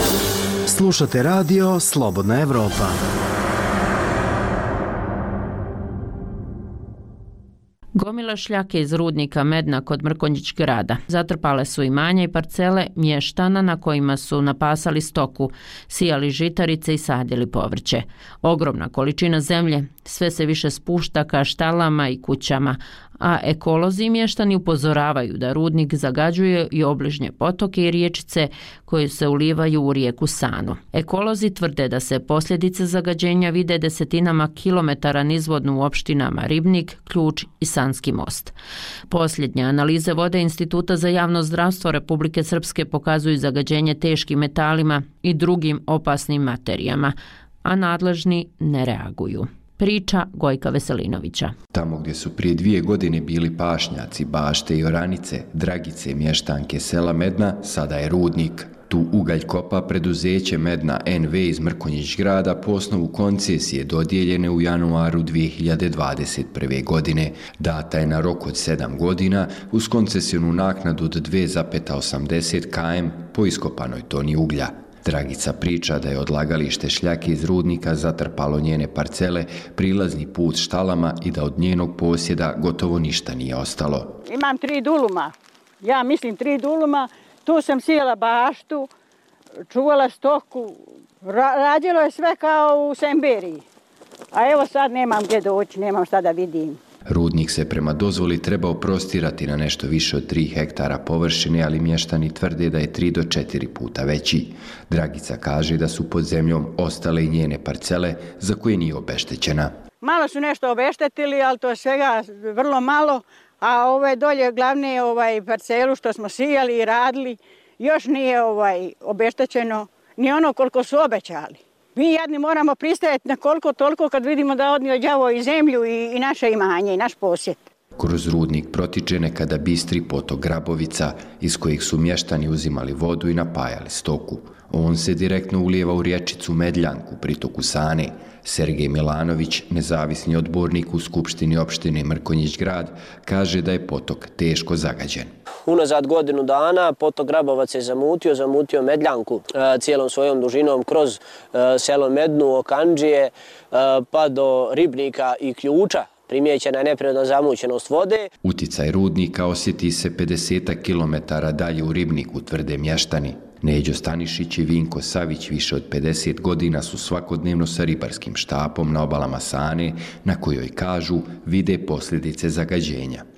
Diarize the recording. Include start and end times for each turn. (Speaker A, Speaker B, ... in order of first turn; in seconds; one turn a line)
Speaker A: 0.7-3.0
Speaker B: 7.9-38.5
Speaker B: 39.1-51.5
Speaker C: 51.7-84.2
Speaker D: 84.2-88.9
Speaker D: 89.7-93.6
Speaker D: 94.3-96.8
Speaker C: 97.1-109.7
Speaker D: 110.0-127.7
Speaker C: 128.0-145.3
Speaker E: 145.7-158.3
Speaker C: 158.4-173.2